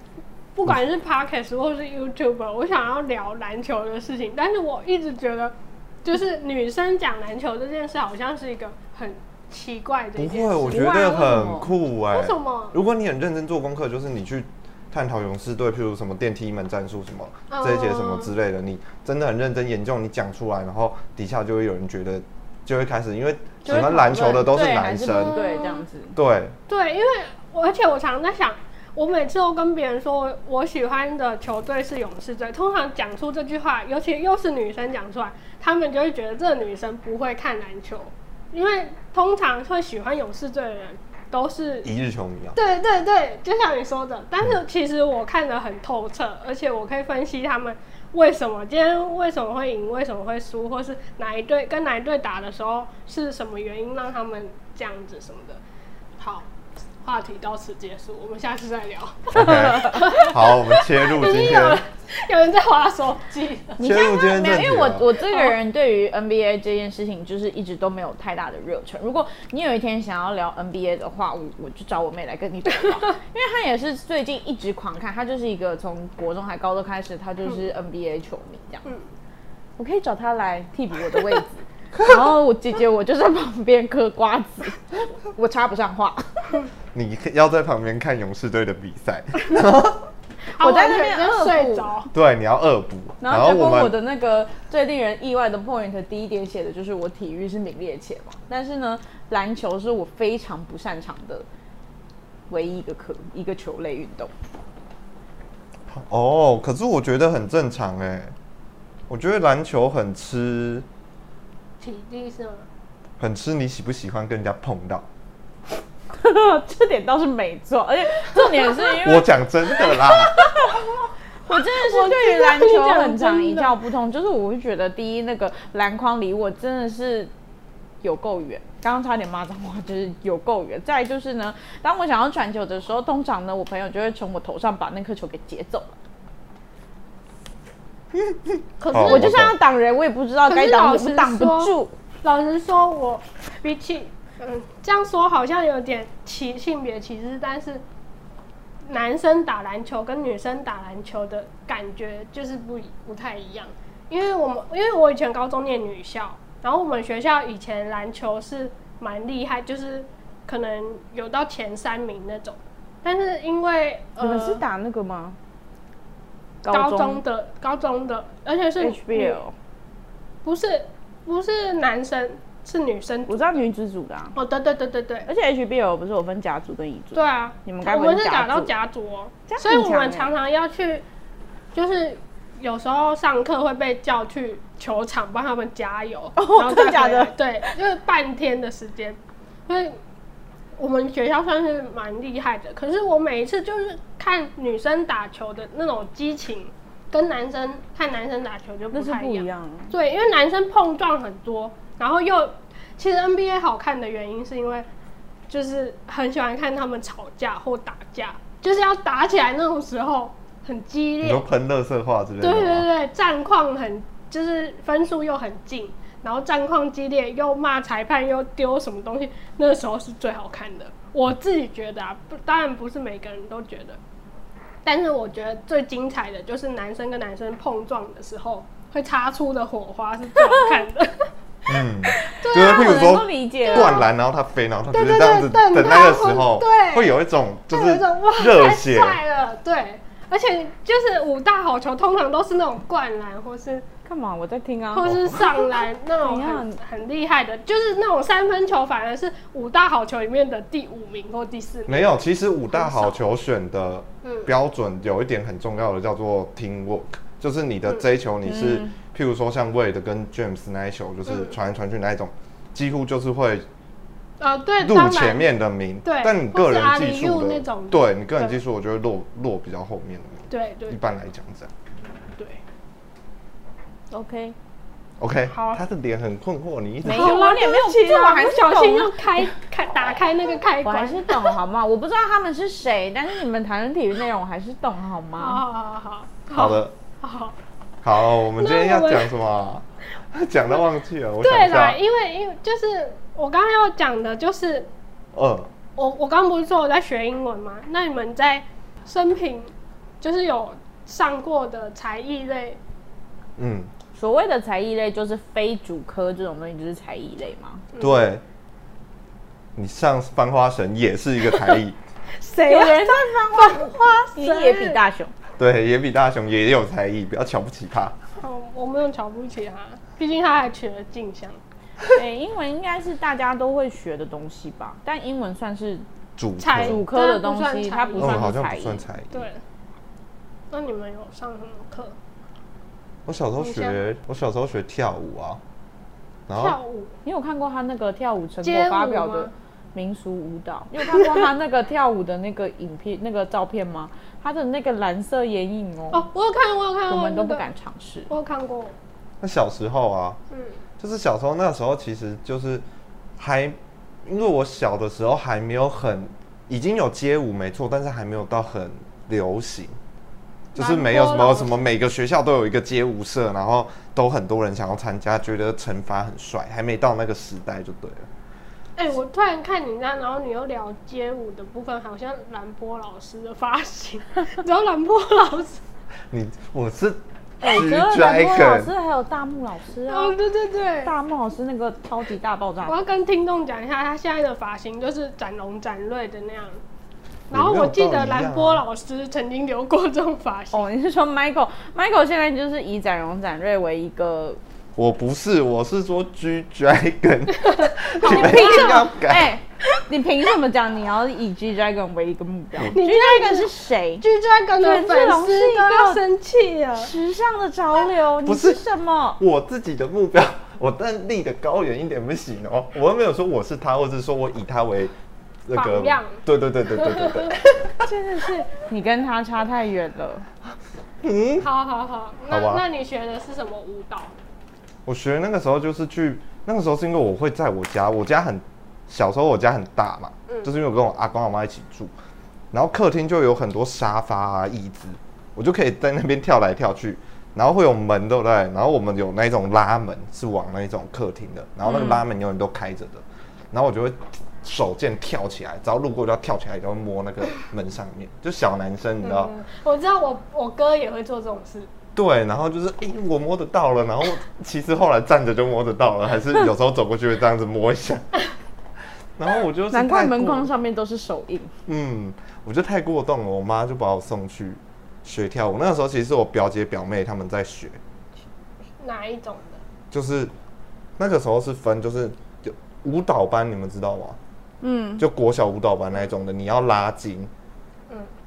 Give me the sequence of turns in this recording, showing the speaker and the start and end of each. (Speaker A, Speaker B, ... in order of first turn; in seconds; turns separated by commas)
Speaker A: 0.5-11.5, Speaker B: 10.2-25.4, Speaker C: 10.7-11.7, Speaker A: 12.1-12.8, Speaker A: 17.5-18.3, Speaker A: 23.6-25.8, Speaker C: 23.7-26.1, Speaker B: 26.1-26.6, Speaker A: 26.7-41.9, Speaker B: 41.8-42.6, Speaker A: 42.5-55.6, Speaker A: 56.2-56.5, Speaker A: 57.0-63.9, Speaker B: 59.3-61.8, Speaker C: 63.8-78.9, Speaker B: 63.8-65.1, Speaker A: 65.3-65.5, Speaker C: 79.8-86.6, Speaker B: 86.9-90.1, Speaker A: 90.5-92.1, Speaker C: 90.6-91.9, Speaker B: 92.1-93.9, Speaker C: 93.2-101.5, Speaker C: 102.5-104.3, Speaker B: 105.9-108.3, Speaker B: 109.1-110.8, Speaker A: 111.8-112.7, Speaker B: 113.2-115.0, Speaker C: 116.1-120.8, Speaker B: 119.0-120.5, Speaker C: 121.5-127.3, Speaker A: 121.7-123.7, Speaker C: 128.0-135.9, Speaker B: 138.1-139.5, Speaker A: 138.8-139.4, Speaker C: 139.0-141.9, Speaker A: 140.4-147.8, Speaker A: 148.8-164.6, Speaker C: 164.2-165.4, Speaker C: 166.6-167.2, Speaker A: 166.7-169.4, Speaker C: 168.8-169.5, Speaker A: 170.4-173.6, Speaker C: 173.3-174.3, Speaker A: 174.3-175.3, Speaker C: 175.2-178.7, Speaker A: 177.1-181.0, Speaker C: 179.5-180.3, Speaker A: 181.7-190.0, Speaker C: 186.3-187.3, Speaker A: 190.8-204.9, Speaker C: 198.9-199.9, Speaker A: 205.5-211.4, Speaker B: 211.2-212.9, Speaker A: 212.4-224.0, Speaker A: 224.8-234.1, Speaker B: 231.7-239.2, Speaker C: 232.3-234.1, Speaker A: 234.9-243.8, Speaker C: 244.0-246.8, Speaker A: 244.9-252.2, Speaker B: 245.0-245.4, Speaker B: 251.9-263.6, Speaker A: 252.7-253.2, Speaker A: 254.2-254.5, Speaker C: 258.4-258.9, Speaker A: 261.3-261.6, Speaker A: 264.4-265.5, Speaker B: 264.8-271.7, Speaker A: 266.0-268.6, Speaker A: 270.5-271.0, Speaker A: 272.4-272.6, Speaker C: 274.1-274.6, Speaker B: 275.2-277.4, Speaker A: 275.5-275.8, Speaker C: 277.0-279.4, Speaker A: 277.1-281.6, Speaker C: 280.8-285.6, Speaker A: 285.4-287.6, Speaker B: 286.5-286.9, Speaker B: 288.0-292.0, Speaker A: 288.4-289.3, Speaker A: 291.4-294.9, Speaker B: 295.3-295.7, Speaker A: 296.0-302.8, Speaker B: 303.6-303.9, Speaker C: 304.1-307.8, Speaker A: 307.9-308.3, Speaker B: 308.0-308.4, Speaker B: 309.8-312.0, Speaker A: 311.5-311.8, Speaker C: 312.4-315.3, Speaker A: 312.5-315.0, Speaker B: 315.6-318.2, Speaker A: 318.4-321.6, Speaker C: 322.1-326.1, Speaker B: 326.4-327.0, Speaker A: 326.6-328.6, Speaker C: 326.7-329.0, Speaker B: 328.2-329.5, Speaker A: 329.3-329.6, Speaker A: 330.7-332.1, Speaker B: 333.2-335.6, Speaker A: 333.6-334.0, Speaker B: 336.5-336.8, Speaker A: 336.5-337.1, Speaker C: 337.2-346.3, Speaker A: 338.6-339.5, Speaker A: 346.1-347.7, Speaker C: 347.1-348.3, Speaker A: 348.3-348.9, Speaker B: 349.4-350.4, Speaker A: 350.5-350.8, Speaker B: 351.0-352.8, Speaker B: 353.4-360.0, Speaker A: 360.7-361.9, Speaker B: 360.7-368.3, Speaker A: 368.9-375.8, Speaker B: 376.3-378.9, Speaker C: 377.6-380.3, Speaker A: 380.1-381.1, Speaker C: 381.0-383.0, Speaker A: 382.9-386.8, Speaker A: 387.5-390.9, Speaker B: 387.5-388.8, Speaker C: 390.7-394.6, Speaker B: 394.9-399.5, Speaker A: 397.6-399.1, Speaker C: 398.2-404.2, Speaker A: 402.9-407.1, Speaker C: 404.8-406.2, Speaker C: 406.9-409.4, Speaker B: 408.4-408.8, Speaker B: 409.4-415.1, Speaker B: 415.6-417.8, Speaker A: 415.7-417.8, Speaker C: 418.0-420.4, Speaker B: 421.2-421.7, Speaker A: 421.6-424.3, Speaker B: 422.5-422.8, Speaker B: 425.1-432.1, Speaker A: 430.5-430.7, Speaker B: 432.7-449.5, Speaker C: 441.9-442.2, Speaker A: 449.2-451.9, Speaker B: 452.1-458.3, Speaker B: 459.4-460.7, Speaker C: 459.9-461.7, Speaker B: 461.9-468.0, Speaker A: 469.0-469.8, Speaker B: 470.1-470.5, Speaker B: 471.2-474.4, Speaker C: 474.8-475.2, Speaker B: 475.2-477.5